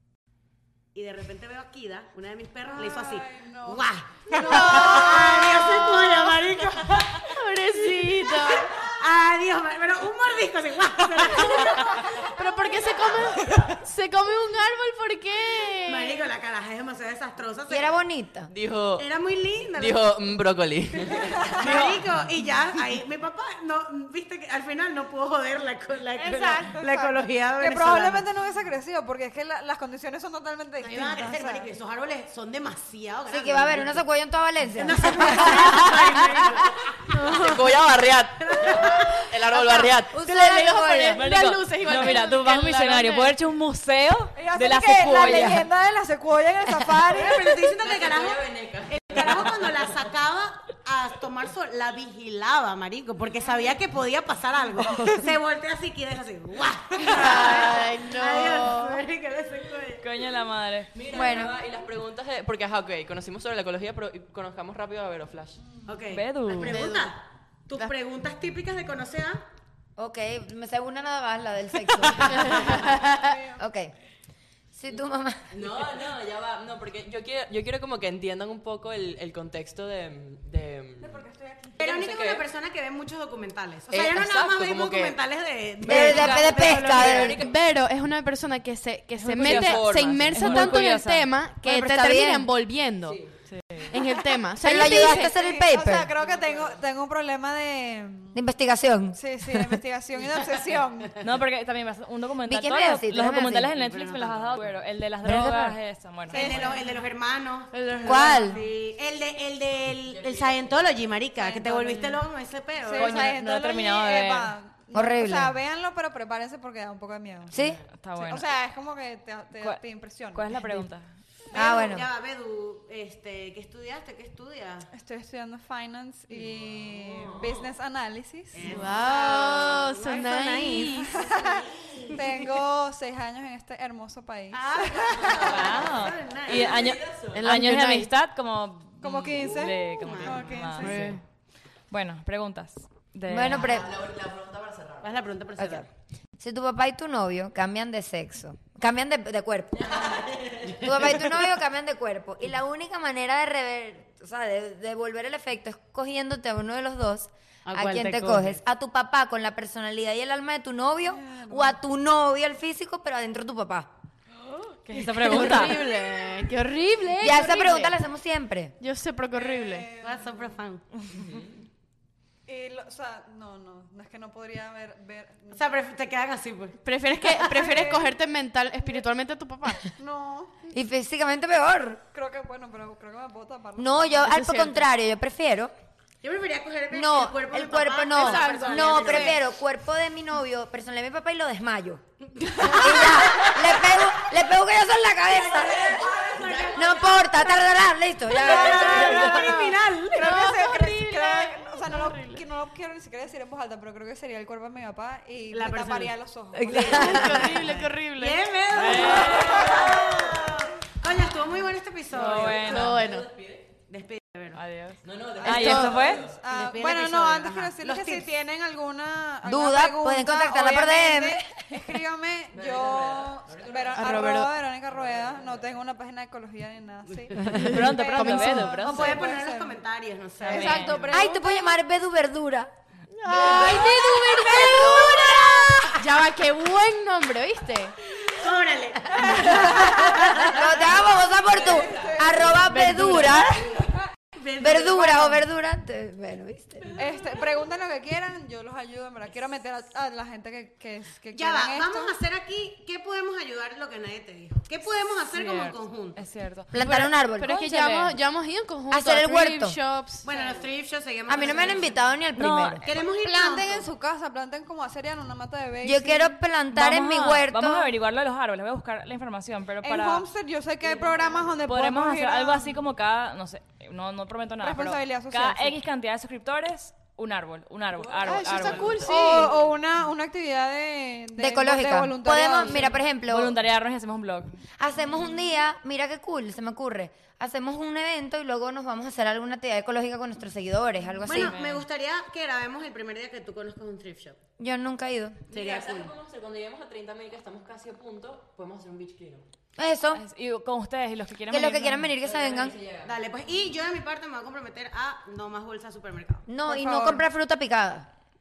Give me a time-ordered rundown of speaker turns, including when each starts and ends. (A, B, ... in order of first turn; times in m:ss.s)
0:01.0-0:07.4 A
0:02.6-0:05.2 B
0:04.4-0:06.4 C
0:07.2-0:08.7 C
0:08.1-0:12.3 A
0:12.2-0:16.2 C
0:15.9-0:17.9 A
0:17.7-0:18.5 D
0:18.5-0:19.0 E
0:19.0-0:20.3 A
0:19.8-0:21.6 E
0:21.1-0:28.2 A
0:21.6-0:22.0 F
0:26.2-0:31.7 B
0:30.9-0:34.0 A
0:33.3-0:36.5 D
0:34.8-0:37.5 A
0:37.2-0:37.7 C
0:37.4-0:40.2 E
0:38.4-0:39.2 A
0:39.5-0:41.3 D
0:40.2-0:43.4 C
0:41.1-0:45.7 F
0:44.4-0:47.6 B
0:47.1-1:00.0 A
0:47.7-0:50.0 E
0:57.1-0:59.0 C
1:00.0-1:00.9 F
1:00.9-1:05.7 E
1:01.1-1:01.5 D
1:05.9-1:09.4 A
1:06.1-1:06.9 F
1:06.6-1:07.1 C
1:10.0-1:13.9 D
1:12.5-1:12.8 C
1:13.0-1:13.6 B
1:14.8-1:15.7 D
1:15.5-1:22.5 E
1:21.8-1:27.4 A
1:23.9-1:25.2 E
1:25.8-1:27.5 E
1:25.8-1:27.4 D
1:27.0-1:33.2 C
1:29.2-1:31.3 F
1:29.4-1:30.8 E
1:31.6-1:32.5 D
1:33.0-1:33.8 E
1:33.5-1:34.0 F
1:33.9-1:35.4 C
1:34.6-1:36.1 D
1:34.6-1:38.4 B
1:36.2-1:36.8 E
1:38.3-1:39.8 D
1:39.1-1:41.2 B
1:41.2-1:46.8 F
1:42.5-1:43.7 D
1:43.8-1:44.6 A
1:44.3-1:44.7 E
1:45.2-1:45.8 D
1:46.3-1:46.9 B
1:46.3-1:53.3 A
1:47.7-1:48.6 C
1:48.0-1:48.6 D
1:50.1-1:50.6 E
1:51.4-1:52.0 B
1:52.8-1:57.6 B
1:53.0-1:54.6 F
1:54.9-1:55.5 D
1:57.5-1:57.8 D
1:57.6-1:57.8 E
1:58.0-1:58.5 F
1:58.2-2:00.5 B
2:00.3-2:01.2 F
2:01.5-2:04.9 A
2:01.5-2:02.1 D
2:04.9-2:08.8 B
2:06.5-2:07.6 E
2:08.5-2:11.4 A
2:08.6-2:11.3 C
2:11.0-2:15.6 B
2:11.9-2:12.5 A
2:14.5-2:17.0 A
2:15.2-2:17.6 E
2:15.4-2:21.2 F
2:17.3-2:18.1 C
2:19.0-2:21.0 B
2:20.0-2:21.0 A
2:20.8-2:21.2 C
2:21.9-2:23.8 F
2:23.3-2:23.9 D
2:23.4-2:25.2 E
2:25.0-2:25.9 A
2:25.6-2:25.9 D
2:26.4-2:43.9 D
2:29.8-2:31.2 E
2:37.7-2:38.6 A
2:41.0-2:41.8 B
2:44.9-2:45.8 F
2:45.2-2:47.9 C
2:47.2-2:48.8 D
2:48.8-2:49.9 C
2:49.4-2:50.5 B
2:50.0-2:50.8 A
2:51.1-2:51.5 E
2:52.5-2:55.7 B
2:55.5-2:58.0 A
2:56.8-2:59.9 C
2:57.5-2:58.1 B
2:58.8-2:59.1 B
3:00.0-3:00.6 B
3:00.7-3:02.0 D
3:02.1-3:04.3 B
3:03.8-3:05.7 D
3:04.2-3:04.8 C
3:06.2-3:09.4 A
3:06.9-3:12.0 D
3:08.1-3:09.3 C
3:12.4-3:13.6 A
3:12.6-3:16.1 D
3:12.8-3:13.3 C
3:15.5-3:17.2 E
3:15.9-3:17.2 A
3:16.7-3:19.7 D
3:18.4-3:20.4 A
3:18.5-3:26.9 B
3:18.8-3:19.2 C
3:20.2-3:22.4 C
3:25.5-3:26.2 A
3:26.6-3:27.7 D
3:26.7-3:28.4 C
3:26.7-3:27.5 A
3:28.2-3:33.0 A
3:28.7-3:29.8 F
3:29.0-3:30.3 E
3:32.1-3:33.0 F
3:32.2-3:33.7 E
3:32.6-3:33.3 C
3:33.9-3:34.6 A
3:34.6-3:36.3 F
3:35.0-3:36.4 E
3:35.4-3:49.8 B
3:35.5-3:36.1 C
3:36.5-3:38.3 A
3:39.4-3:41.9 D
3:42.5-3:44.2 E
3:44.0-3:44.5 C
3:44.9-3:45.8 E
3:47.4-3:49.0 C
3:47.4-3:49.3 F
3:48.8-3:51.2 A
3:50.4-3:50.9 B
3:50.4-3:51.5 C
3:50.5-3:51.0 F
3:51.1-3:52.7 D
3:53.1-3:55.3 C
3:53.3-3:56.0 D
3:53.3-3:55.9 A
3:56.0-3:58.0 C
3:58.2-4:00.9 A
3:59.3-4:00.1 B
3:59.3-4:03.9 D
4:01.4-4:02.3 E
4:01.9-4:02.2 B
4:02.5-4:03.5 C
4:04.3-4:05.4 A
4:04.6-4:07.0 D
4:07.0-4:12.2 B
4:11.3-4:16.2 A
4:15.3-4:16.7 F
4:16.7-4:18.2 D
4:16.8-4:20.3 C
4:18.9-4:19.8 D
4:20.2-4:22.1 A
4:20.3-4:20.6 B
4:21.3-4:22.8 D
4:22.4-4:23.0 F
4:22.8-4:23.9 A
4:23.2-4:26.4 B
4:25.8-4:27.9 D
4:26.7-4:30.3 F
4:29.8-4:32.8 B
4:31.7-4:39.0 F
4:34.6-4:35.8 B
4:38.0-4:39.5 E
4:38.3-4:39.6 C
4:38.9-4:43.0 B
4:41.4-4:43.6 D
4:43.0-4:44.6 F
4:44.8-4:51.6 D
4:51.2-4:54.4 A
4:51.3-4:51.9 F
4:54.6-4:55.4 D
4:55.5-4:59.4 E
4:55.5-4:56.1 A
4:59.8-5:00.2 D
5:00.1-5:02.1 F
5:01.5-5:02.7 D
5:02.2-5:03.2 E
5:03.0-5:06.5 A
5:06.5-5:08.1 D
5:06.7-5:07.2 B